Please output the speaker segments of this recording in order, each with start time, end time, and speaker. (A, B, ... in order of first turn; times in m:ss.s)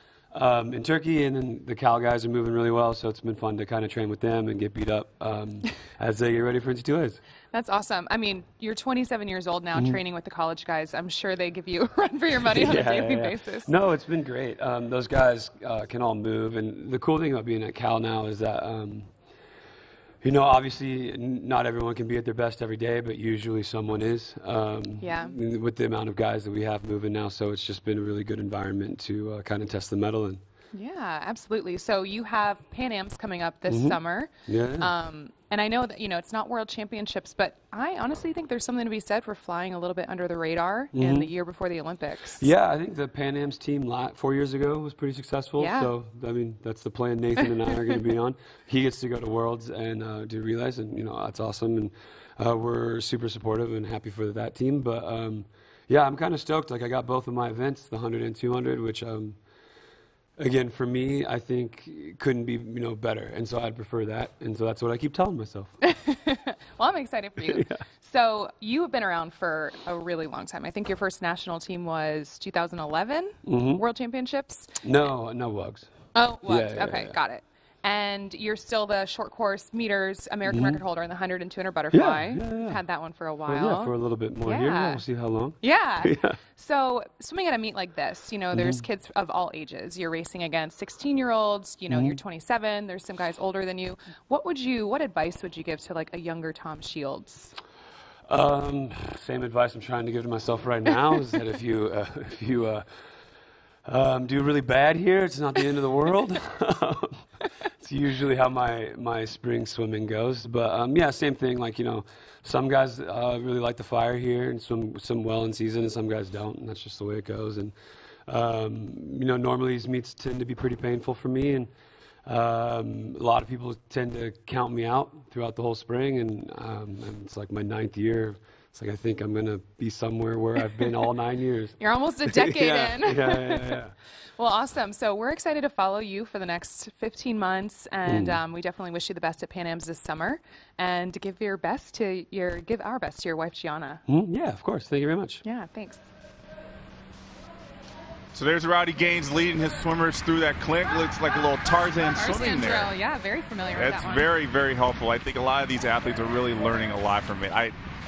0:00.3-0:07.2 A
0:07.5-0:13.7 B
0:09.7-0:10.0 A
0:12.5-0:19.1 A
0:20.2-0:30.4 A
0:25.0-0:25.3 B
0:30.7-0:42.5 B
0:33.7-0:34.9 A
0:40.9-0:41.3 A
0:42.4-0:59.4 A
0:45.6-0:45.9 B
1:00.4-1:05.7 A
1:05.9-1:14.7 B
1:07.4-1:07.8 A
1:13.4-1:13.8 A
1:14.8-1:15.9 A
1:16.2-1:25.0 B
1:16.4-1:17.2 A
1:20.5-1:20.8 A
1:21.9-1:22.8 A
1:23.4-1:26.4 A
1:25.6-1:37.5 B
1:28.5-1:28.9 A
1:31.9-1:32.2 A
1:38.3-1:42.8 A
1:43.8-1:47.2 A
1:47.8-1:57.7 A
1:58.3-2:01.7 A
2:02.3-2:14.0 A
2:11.8-2:13.8 B
2:14.4-2:24.0 B
2:18.1-2:18.4 A
2:24.1-2:25.4 A
2:25.4-2:26.0 B
2:28.3-2:32.9 C
2:32.0-2:34.3 B
2:33.8-2:37.8 C